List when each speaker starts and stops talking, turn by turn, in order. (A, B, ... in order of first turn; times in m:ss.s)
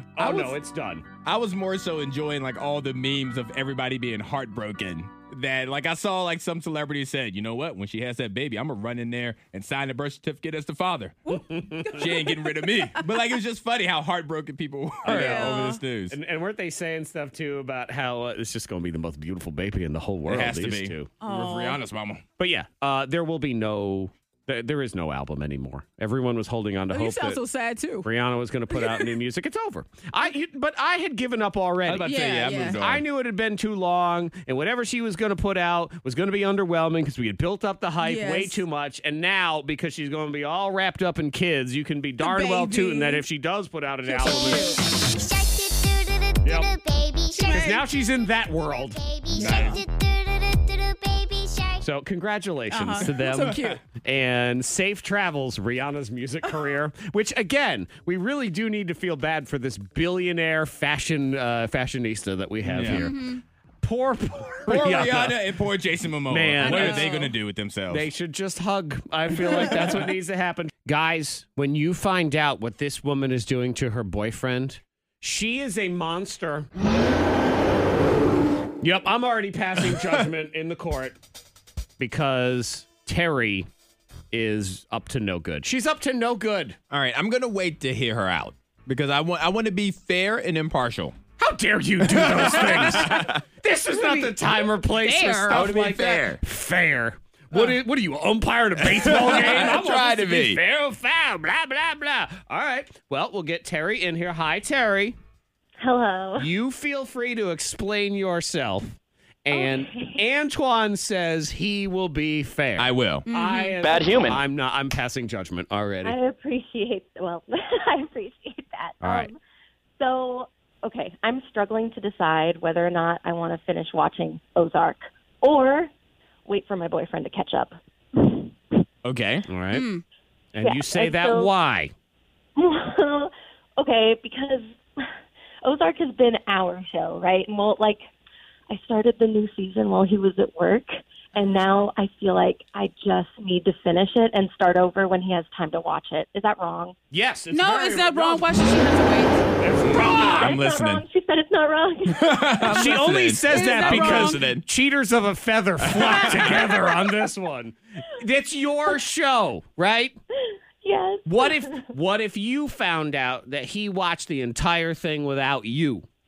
0:00.2-0:00.5 A
0:00.2-0:01.1 B
0:01.2-0:11.3 A
0:11.3-0:13.0 C
0:11.5-0:12.0 B
0:11.9-0:16.2 A
0:15.0-0:21.1 B
0:15.0-0:15.8 C
0:20.2-0:22.2 A
0:21.2-0:21.8 C
0:22.4-0:27.4 B
0:26.9-0:28.1 C
0:28.0-0:44.8 B
0:28.7-0:29.1 C
0:31.8-0:33.0 A
0:32.0-0:32.8 C
0:38.0-0:38.6 C
0:42.2-0:43.2 C
0:44.0-0:44.8 C
0:45.2-0:47.8 D
0:46.4-0:46.7 B
0:47.3-0:47.8 C
0:47.5-0:49.6 B
0:49.0-0:51.8 D
0:49.3-0:49.8 A
0:49.3-0:49.7 C
0:51.8-1:03.3 B
0:52.7-0:53.8 C
0:53.3-0:53.6 A
1:02.6-1:03.1 A
1:02.8-1:03.4 C
1:03.8-1:05.4 B
1:04.7-1:08.1 A
1:06.3-1:07.1 B
1:06.6-1:07.4 C
1:07.9-1:16.7 B
1:18.8-1:21.2 B
1:22.0-1:23.7 B
1:24.3-1:26.8 B
1:26.9-1:31.2 A
1:31.4-1:45.2 B
1:32.0-1:33.4 A
1:33.9-1:35.7 C
1:35.2-1:36.4 A
1:38.8-1:40.6 A
1:45.8-1:46.5 E
1:46.4-1:56.2 B
1:49.5-1:50.2 E
1:52.8-1:53.3 A
1:53.3-1:53.8 C
1:53.8-1:54.4 A
1:56.0-1:59.4 E
1:59.0-1:59.3 B
2:00.0-2:05.9 E
2:06.4-2:08.5 E
2:09.0-2:09.4 A
2:09.4-2:09.8 B
2:09.7-2:10.0 C
2:10.6-2:11.9 B
2:10.6-2:11.5 E
2:12.6-2:15.1 E
2:15.6-2:18.0 E
2:18.7-2:27.0 E
2:27.1-2:28.5 B
2:27.5-2:29.4 C
2:29.6-2:30.6 B
2:29.8-2:31.0 A
2:30.0-2:32.8 E
2:32.1-2:34.6 A
2:32.6-2:40.2 B
2:33.5-2:34.4 C
2:35.8-2:36.7 A
2:40.8-2:41.9 E
2:41.3-2:46.0 B